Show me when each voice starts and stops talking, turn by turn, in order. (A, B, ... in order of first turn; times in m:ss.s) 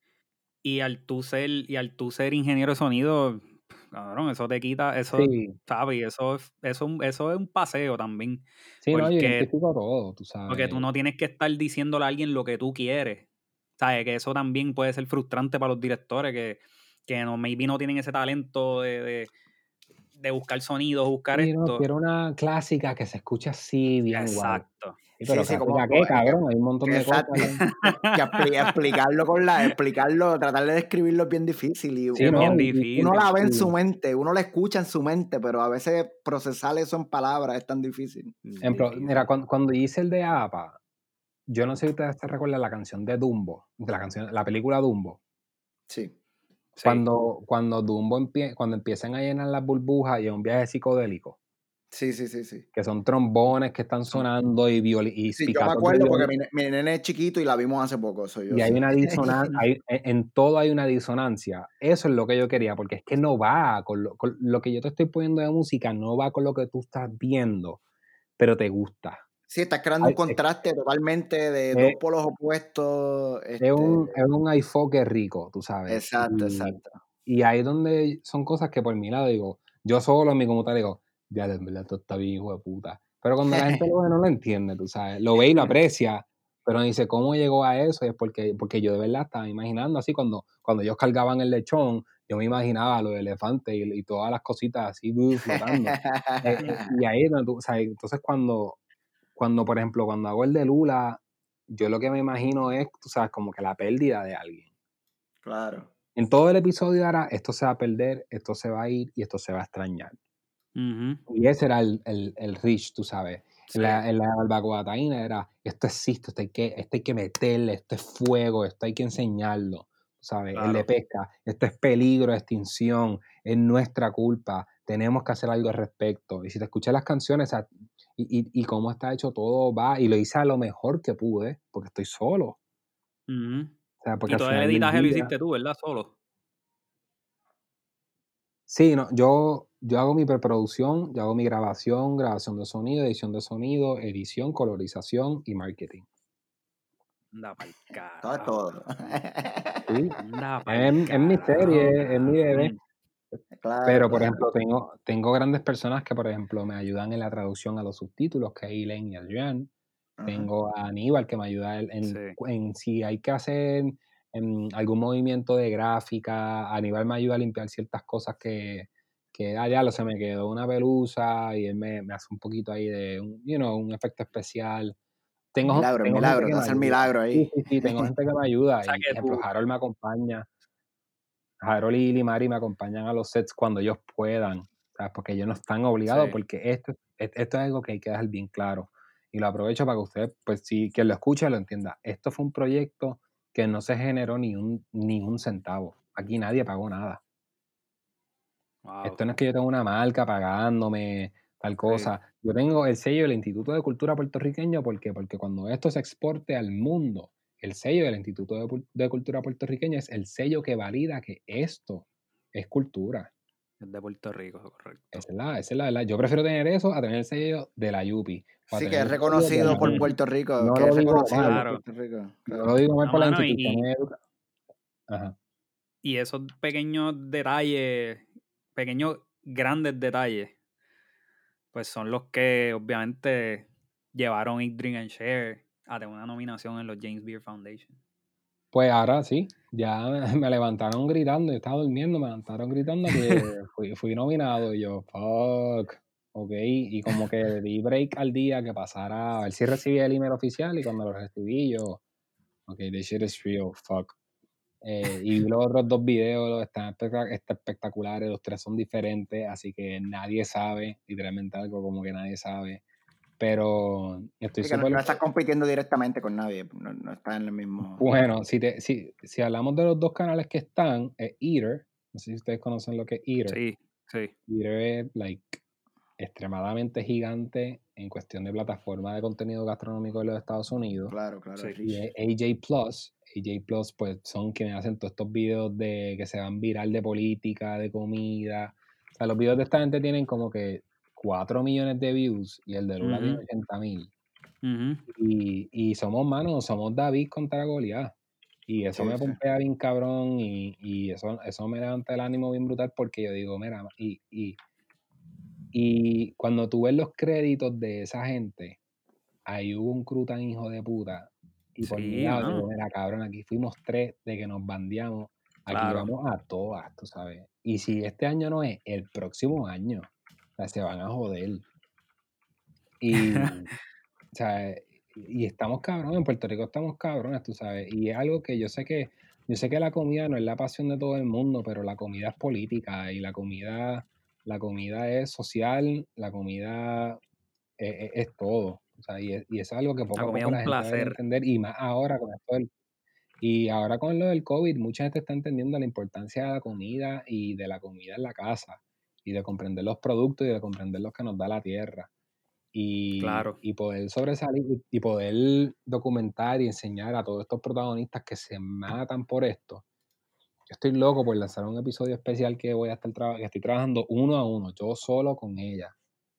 0:00.6-0:09.5 A
0:05.1-0:05.6 B
0:08.8-0:10.8 B
0:10.5-0:13.2 A
0:13.8-0:19.3 A
0:20.1-0:21.8 A
0:21.3-0:24.6 B
0:24.1-0:25.0 A
0:25.2-0:27.6 B
0:25.2-0:38.6 C
0:27.6-0:28.7 A
0:32.1-0:33.7 B
0:32.2-0:33.3 A
0:38.4-0:39.3 A
0:38.6-0:40.8 B
0:41.5-0:45.2 B
0:45.9-0:46.1 C
0:46.8-0:47.0 A
0:46.8-0:51.4 B
0:51.9-0:52.6 C
0:52.7-0:56.3 B
0:55.4-0:59.6 C
0:58.5-1:07.8 B
1:08.4-1:09.2 B
1:09.5-1:14.1 C
1:10.0-1:10.4 B
1:11.7-1:12.0 B
1:13.6-1:38.8 B
1:15.9-1:17.0 C
1:23.5-1:23.8 C
1:35.4-1:36.9 C
1:39.4-1:44.7 B
1:45.4-1:45.9 C
1:46.1-1:50.2 B
1:50.8-1:51.2 A
1:51.3-2:12.6 B
1:53.7-1:54.0 A
2:00.5-2:00.9 A
2:13.3-2:13.7 A
2:14.0-2:15.3 B
2:14.2-2:16.1 A
2:18.7-2:26.0 B
2:27.3-2:28.5 A
2:28.2-2:29.9 C
2:29.9-2:32.7 B
2:30.2-2:32.8 A
2:33.6-2:34.4 C
2:33.8-2:39.7 B
2:40.2-2:40.5 C
2:40.2-2:55.0 B
2:42.0-2:42.4 A
2:55.5-3:00.5 B
2:55.7-2:58.1 C
2:58.8-2:59.4 A
3:01.6-3:17.2 B
3:06.0-3:06.4 A
3:18.8-3:19.2 A
3:19.0-3:33.3 B
3:21.8-3:22.1 A
3:33.8-3:35.2 A
3:35.1-3:41.6 B
3:38.7-3:42.7 C
3:39.6-3:40.1 A
3:41.3-3:41.8 A
3:42.5-3:44.2 B
3:43.0-3:43.9 A
3:45.1-3:45.4 B
3:46.0-3:50.5 A
3:51.7-3:58.0 A
3:58.7-4:12.0 B
4:03.1-4:03.5 A
4:12.7-4:14.2 B
4:14.8-4:22.8 B
4:23.4-4:25.2 B
4:24.6-4:28.0 C
4:27.9-4:33.6 B
4:33.5-4:34.3 A
4:34.5-4:35.6 B
4:36.2-4:41.1 B
4:41.1-4:42.0 C
4:41.8-4:54.1 B
4:53.0-4:53.4 A
4:54.6-4:55.0 A
4:55.1-4:58.1 B
4:58.7-5:04.6 B
4:58.9-4:59.4 C
5:05.7-5:08.8 B
5:09.4-5:21.6 B
5:11.8-5:12.7 A
5:15.7-5:16.1 A
5:23.0-5:23.7 B
5:23.1-5:23.6 A
5:24.3-5:37.2 B
5:37.8-5:42.7 B
5:40.1-5:41.2 A
5:43.4-5:52.1 B
5:52.7-5:59.8 B
5:53.2-5:53.6 A
6:00.7-6:05.9 B